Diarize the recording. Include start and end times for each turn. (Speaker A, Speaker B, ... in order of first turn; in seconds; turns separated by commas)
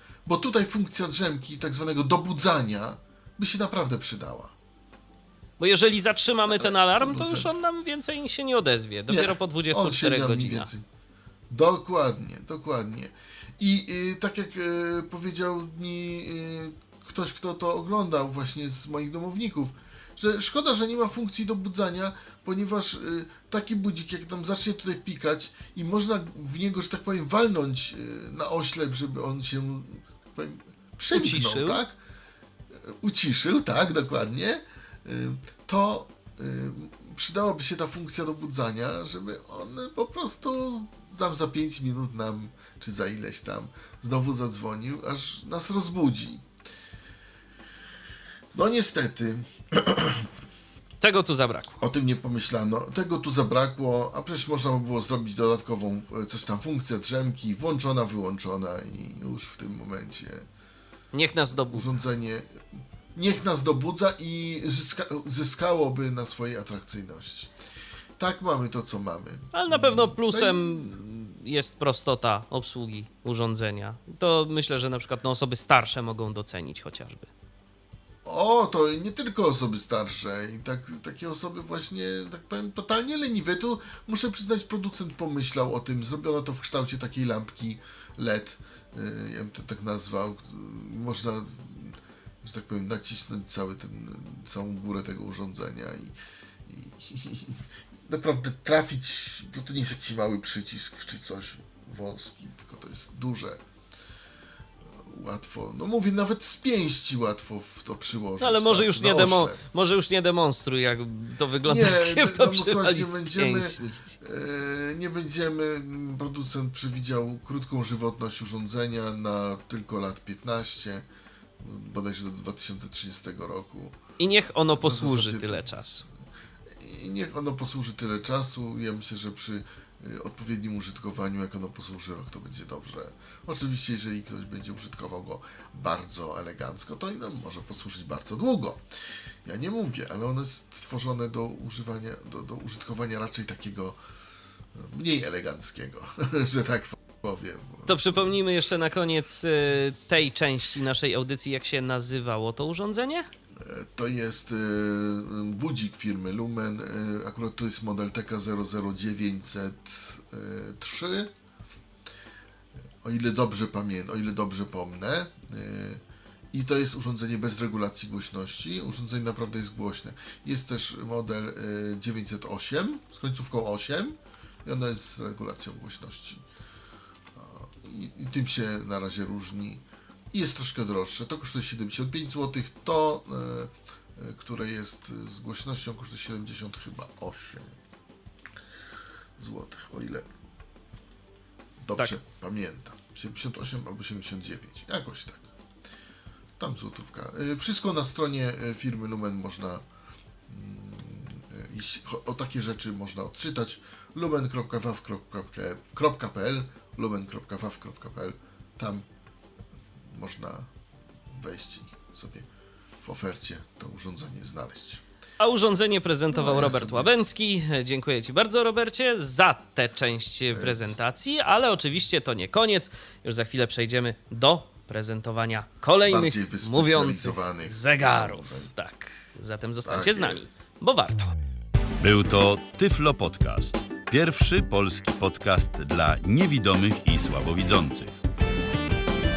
Speaker A: 0.2-4.5, Speaker B: 5.6-10.7, Speaker A: 6.5-7.6, Speaker A: 9.1-10.8, Speaker A: 11.5-32.0, Speaker B: 31.1-31.8, Speaker A: 32.7-46.4, Speaker A: 48.5-50.3, Speaker B: 51.0-51.8, Speaker A: 51.8-60.4, Speaker B: 61.1-62.0, Speaker A: 61.7-62.6, Speaker A: 63.1-67.5, Speaker A: 68.2-70.9, Speaker B: 69.5-77.3, Speaker A: 78.2-103.6, Speaker A: 104.9-109.6, Speaker B: 108.4-114.2, Speaker A: 111.6-121.0, Speaker A: 121.6-124.0, Speaker B: 124.2-126.0, Speaker A: 124.8-125.7, Speaker A: 126.7-138.8, Speaker A: 139.4-144.0, Speaker A: 144.8-148.4, Speaker B: 147.9-153.3, Speaker A: 153.6-161.3, Speaker A: 163.0-166.0, Speaker A: 166.5-176.4, Speaker A: 177.3-187.7, Speaker A: 189.4-190.3, Speaker A: 191.8-195.5, Speaker A: 196.6-199.8, Speaker A: 200.5-209.0, Speaker A: 210.1-210.7, Speaker A: 211.3-212.4, Speaker A: 213.0-215.0, Speaker B: 215.4-231.3, Speaker A: 216.3-217.1, Speaker A: 220.5-220.9, Speaker A: 226.0-228.7, Speaker A: 229.8-230.4, Speaker C: 232.0-238.1